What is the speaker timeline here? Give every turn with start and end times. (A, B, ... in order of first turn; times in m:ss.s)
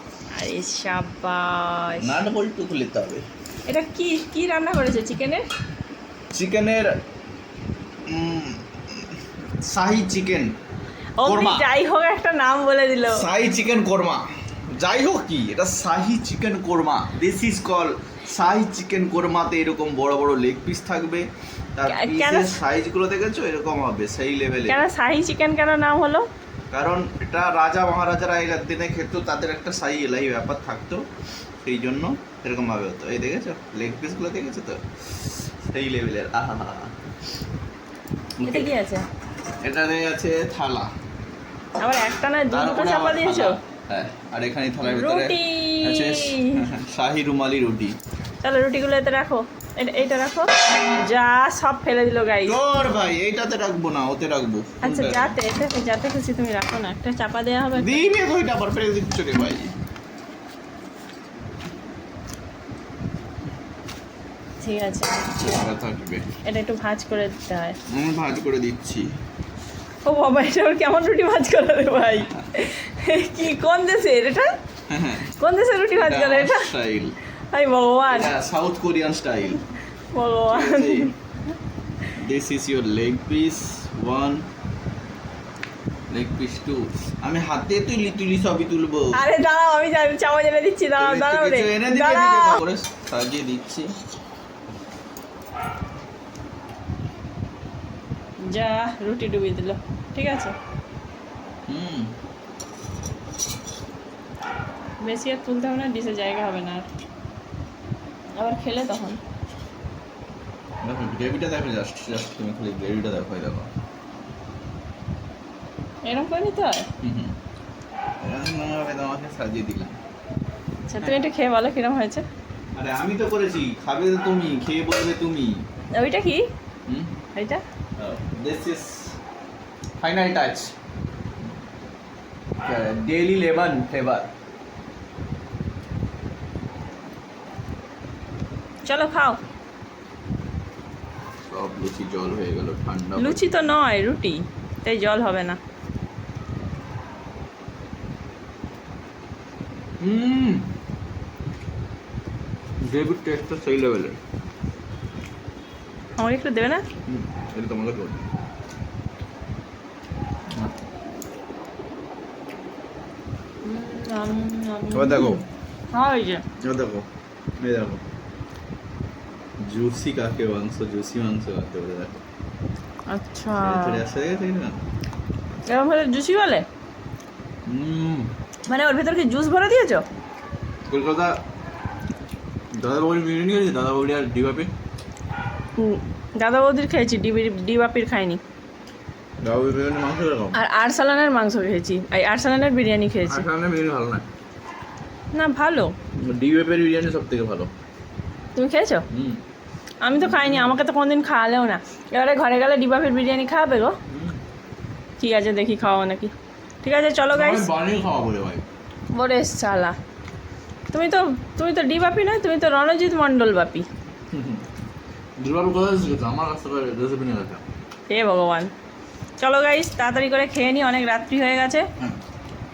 0:00.4-0:02.1 A
0:02.0-0:03.2 B
0:03.7-0:05.4 A
0:06.3-0:06.9 B
0:08.1-0:09.0 B
0:09.6-0:10.5 B
0:11.2-0:13.2 A
0:11.2-0:11.7 B
0:13.0-0:14.2 B
0:14.8-0:24.8 B
0:21.9-0:22.6 A
0:24.7-0:26.3 A
0:26.7-0:31.0 B
0:31.6-0:36.9 B
0:38.4-0:38.7 B
0:38.4-0:39.0 A
0:39.6-0:40.9 B
0:41.8-0:43.6 A
0:42.5-0:48.0 B
0:44.8-0:46.6 A
0:48.4-0:52.6 A
0:52.4-0:55.3 B
0:54.8-0:58.0 A
0:57.8-0:59.7 B
1:04.6-1:05.2 A
1:05.3-1:06.3 B
1:06.4-1:07.8 A
1:07.9-1:09.1 B
1:10.0-1:14.5 A
1:14.9-1:15.3 B
1:15.4-1:16.7 A
1:15.9-1:17.2 B
1:17.5-1:18.3 A
1:18.1-1:19.6 B
1:20.1-1:21.1 A
1:20.5-1:21.1 B
1:22.1-1:24.4 B
1:26.1-1:29.2 B
1:29.1-1:32.6 A
1:31.0-1:33.9 B
1:38.5-1:40.5 A
1:41.7-1:42.1 B
1:45.0-1:46.9 A
1:48.4-1:49.2 A
1:50.8-1:53.7 B
1:56.0-1:56.9 A
1:57.0-1:57.4 B
1:58.2-2:00.0 B
2:00.9-2:02.2 A
2:02.8-2:05.5 B
2:06.0-2:06.5 A
2:06.9-2:07.2 B
2:07.3-2:07.6 A
2:08.0-2:09.2 B
2:10.0-2:10.7 B
2:12.6-2:14.3 B
2:18.8-2:19.4 A
2:21.5-2:23.4 B
2:23.2-2:25.6 A
2:30.0-2:30.7 B
2:32.8-2:34.2 B
2:36.2-2:36.8 A
2:37.1-2:38.2 B
2:43.6-2:46.4 A
2:44.9-2:45.4 B
2:46.6-2:47.1 B
2:47.6-2:48.0 B
2:49.6-2:52.2 B
2:53.1-2:54.0 A
2:53.5-2:54.8 B
2:55.7-2:56.6 A
2:57.7-2:58.3 B
2:58.7-3:00.0 A
3:00.9-3:01.4 B
3:02.8-3:04.7 B
3:05.8-3:08.4 A
3:09.4-3:10.6 B
3:10.5-3:13.4 A
3:13.2-3:14.2 B
3:15.3-3:15.9 A
3:16.2-3:17.7 B
3:18.6-3:19.0 A
3:19.1-3:19.4 B
3:20.0-3:24.0 A
3:20.1-3:20.8 B
3:24.1-3:24.4 B
3:25.2-3:27.7 A
3:27.3-3:28.6 B
3:29.1-3:30.0 A
3:30.9-3:33.8 A
3:34.3-3:34.6 B
3:35.4-3:37.6 B
3:38.1-3:38.7 A
3:39.4-3:41.9 A